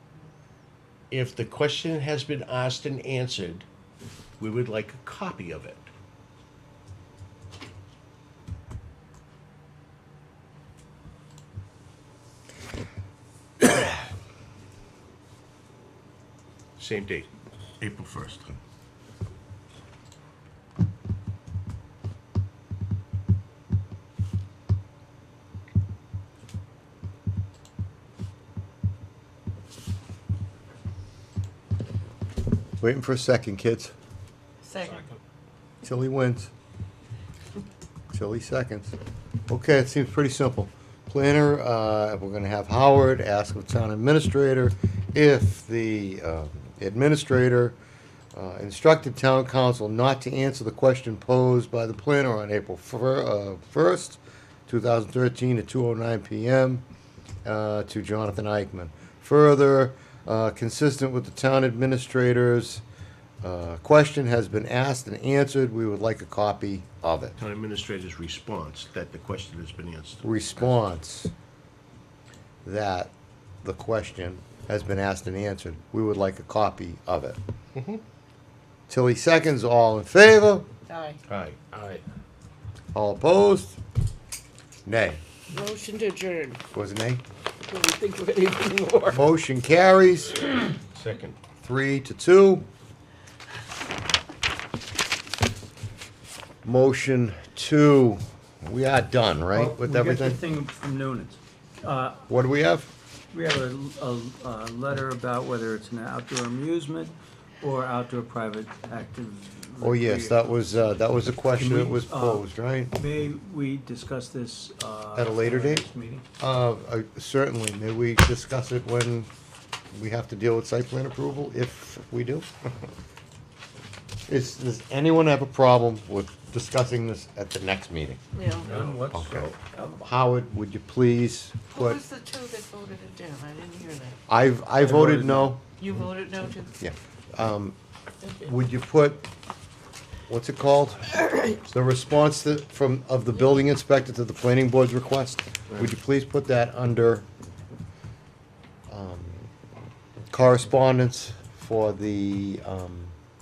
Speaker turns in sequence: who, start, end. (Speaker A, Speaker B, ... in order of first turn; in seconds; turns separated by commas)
Speaker A: 1.1-3.7, Speaker A: 4.4-5.9, Speaker A: 16.8-17.3, Speaker A: 17.8-18.6, Speaker B: 32.8-33.9, Speaker C: 34.6-35.1, Speaker B: 35.8-36.5, Speaker B: 38.1-39.0, Speaker B: 39.5-47.8, Speaker B: 48.3-56.8, Speaker B: 57.4-62.8, Speaker B: 63.4-67.3, Speaker A: 67.3-70.3, Speaker B: 70.2-71.3, Speaker B: 72.6-73.1, Speaker B: 73.6-77.4, Speaker A: 77.7-78.0, Speaker B: 78.9-80.7, Speaker C: 80.9-81.2, Speaker A: 81.3-82.0, Speaker B: 82.9-83.8, Speaker B: 84.8-85.2, Speaker C: 85.5-86.6, Speaker B: 86.7-87.2, Speaker C: 87.7-89.2, Speaker B: 89.1-90.5, Speaker A: 90.9-91.3, Speaker B: 91.6-92.6, Speaker B: 96.6-100.4, Speaker D: 99.5-102.2, Speaker B: 102.3-102.9, Speaker D: 103.3-110.5, Speaker B: 109.8-113.0, Speaker D: 111.5-112.4, Speaker D: 112.9-116.2, Speaker B: 115.1-115.8, Speaker B: 116.4-119.3, Speaker B: 119.9-122.5, Speaker B: 124.3-132.0, Speaker C: 128.3-128.7, Speaker A: 128.6-129.6, Speaker C: 131.7-134.2, Speaker B: 134.3-135.6, Speaker D: 134.9-135.5, Speaker C: 135.7-136.8, Speaker B: 136.8-137.8, Speaker B: 138.4-139.2, Speaker B: 140.3-147.2, Speaker B: 148.9-149.5, Speaker B: 150.3-153.1